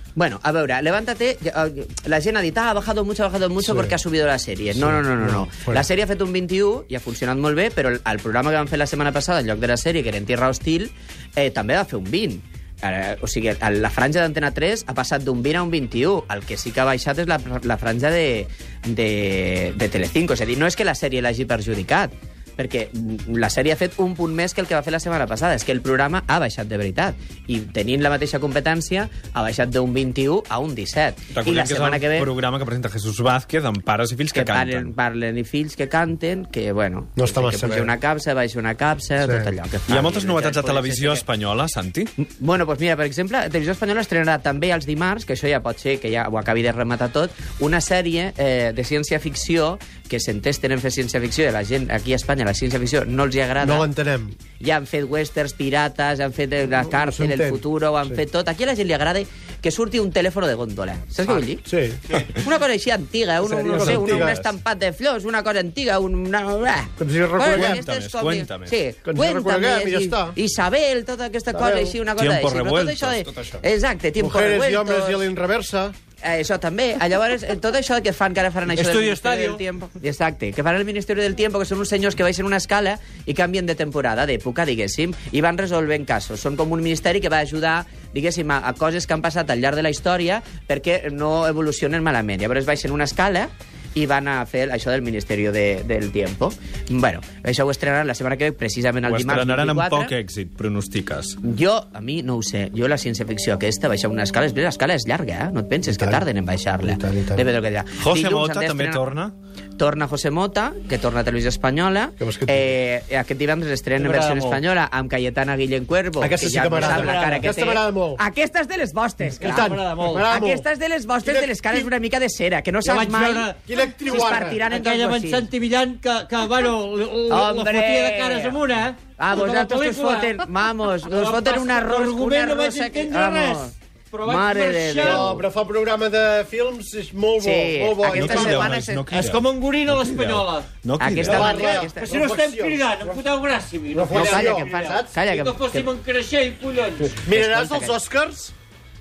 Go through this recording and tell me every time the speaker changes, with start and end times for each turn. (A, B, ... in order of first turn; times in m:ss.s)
0:00.2-0:32.3 A
0:03.6-0:04.0 B
0:04.7-0:05.8 B
0:31.3-0:34.9 C
0:34.3-0:41.2 A
0:37.2-0:37.9 B
0:39.2-0:39.5 B
0:39.9-0:42.1 C
0:42.2-0:53.9 A
0:53.6-0:54.4 B
0:54.6-1:01.6 A
0:57.0-0:58.2 B
1:01.6-1:02.0 B
1:02.2-1:15.2 A
1:03.5-1:04.4 C
1:03.7-1:04.4 B
1:07.0-1:07.8 B
1:07.4-1:08.8 C
1:09.0-1:10.4 B
1:11.5-1:12.0 B
1:12.2-1:13.6 C
1:14.2-1:16.0 B
1:16.2-1:40.1 A
1:18.7-1:19.6 D
1:39.0-1:41.4 C
1:41.4-1:49.0 A
1:45.9-1:46.2 B
1:46.8-1:47.5 B
1:48.0-1:49.3 C
1:49.8-2:03.5 A
1:52.2-1:52.7 B
1:54.0-1:54.6 D
1:56.2-1:58.2 B
1:56.7-1:57.5 D
1:59.4-2:00.7 B
1:59.4-2:00.3 D
2:01.2-2:01.9 B
2:02.8-2:03.7 D
2:03.6-2:04.6 B
2:04.1-2:05.5 A
2:04.5-2:10.5 D
2:07.3-2:08.6 A
2:09.2-2:15.4 A
2:11.1-2:15.4 D
2:15.0-2:18.8 B
2:17.4-2:19.2 A
2:18.0-2:21.6 C
2:19.1-2:20.7 D
2:21.0-2:22.1 A
2:21.2-2:23.2 B
2:21.4-2:27.2 D
2:23.9-2:25.1 B
2:24.1-2:25.9 A
2:27.1-2:28.5 B
2:27.2-2:28.0 A